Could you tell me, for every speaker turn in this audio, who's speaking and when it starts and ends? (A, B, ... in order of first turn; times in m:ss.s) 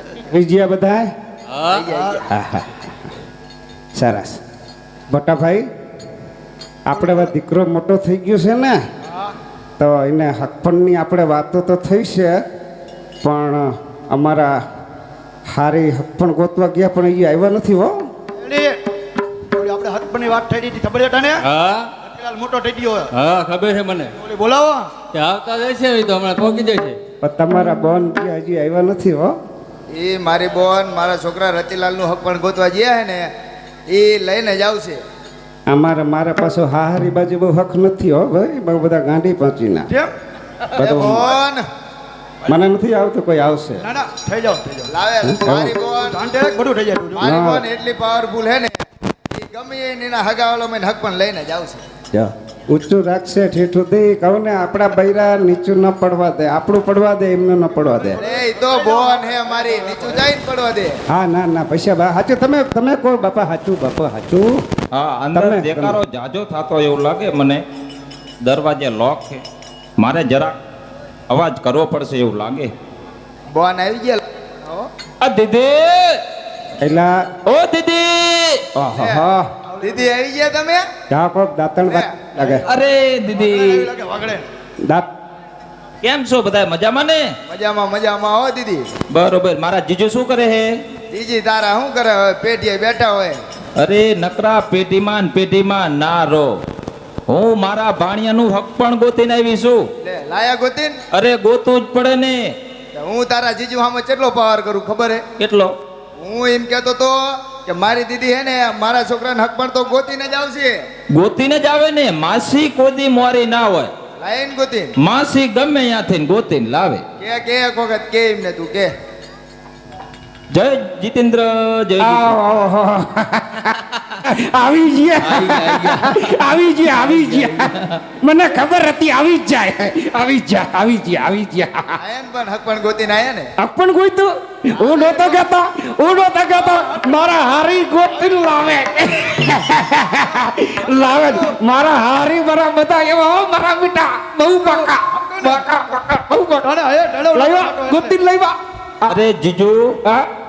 0:00.3-0:01.1 A
0:01.5-0:01.9 B
0:01.7-0:02.1 C
0:01.8-0:02.2 D
0:02.3-0:02.8 A
0:04.0-0:04.4 A
0:05.1-0:05.6 A
0:06.9-0:08.8 A
0:09.1-0:09.3 D
0:09.8-0:12.4 A
0:13.2-0:14.6 A
0:15.5-0:18.0 A
0:18.3-0:21.4 D
0:21.4-0:21.9 B
0:22.0-0:23.1 D
0:23.1-0:24.2 B
0:24.2-0:25.0 D
0:25.1-0:27.0 B
0:27.2-0:29.4 A
0:29.9-0:33.3 C
0:33.9-0:35.0 C
0:35.7-0:39.9 A
0:40.8-0:41.6 C
0:40.8-0:41.3 A
0:41.0-0:41.3 D
0:42.4-0:43.8 A
0:43.8-0:44.9 D
0:44.9-0:46.2 C
0:45.2-0:45.8 A
0:45.9-0:47.3 D
0:47.2-0:48.8 C
0:47.2-0:47.6 A
0:49.3-0:51.8 C
0:52.1-0:58.2 A
0:57.7-1:00.3 D
0:58.2-1:01.0 C
1:01.1-1:04.6 A
1:04.9-1:07.6 E
1:05.3-1:06.0 A
1:08.4-1:09.4 E
1:10.0-1:10.6 E
1:11.3-1:12.7 E
1:13.5-1:14.9 C
1:15.2-1:16.2 E
1:16.8-1:17.2 A
1:17.4-1:18.6 E
1:18.8-1:19.5 A
1:19.0-1:19.2 C
1:19.7-1:20.2 D
1:19.8-1:20.8 C
1:21.1-1:22.6 A
1:21.9-1:22.2 C
1:22.6-1:23.9 E
1:23.3-1:24.5 D
1:26.0-1:27.3 E
1:27.5-1:28.9 C
1:29.1-1:30.7 E
1:31.1-1:33.4 C
1:33.8-1:36.6 E
1:37.3-1:39.8 E
1:40.0-1:41.0 C
1:41.1-1:42.5 E
1:43.0-1:45.2 C
1:45.4-1:45.8 E
1:46.2-1:50.8 C
1:51.1-1:53.9 E
1:54.2-1:54.9 C
1:55.0-1:57.0 E
1:57.2-1:58.9 C
2:00.5-2:02.4 E
2:02.0-2:07.7 A
2:05.2-2:08.0 E
2:08.2-2:12.0 A
2:12.0-2:13.5 C
2:13.6-2:26.7 A
2:14.9-2:15.3 D
2:16.5-2:17.0 D
2:20.3-2:21.5 D
2:24.6-2:25.7 D
2:26.6-2:28.2 D
2:27.3-2:29.2 A
2:29.0-2:30.0 E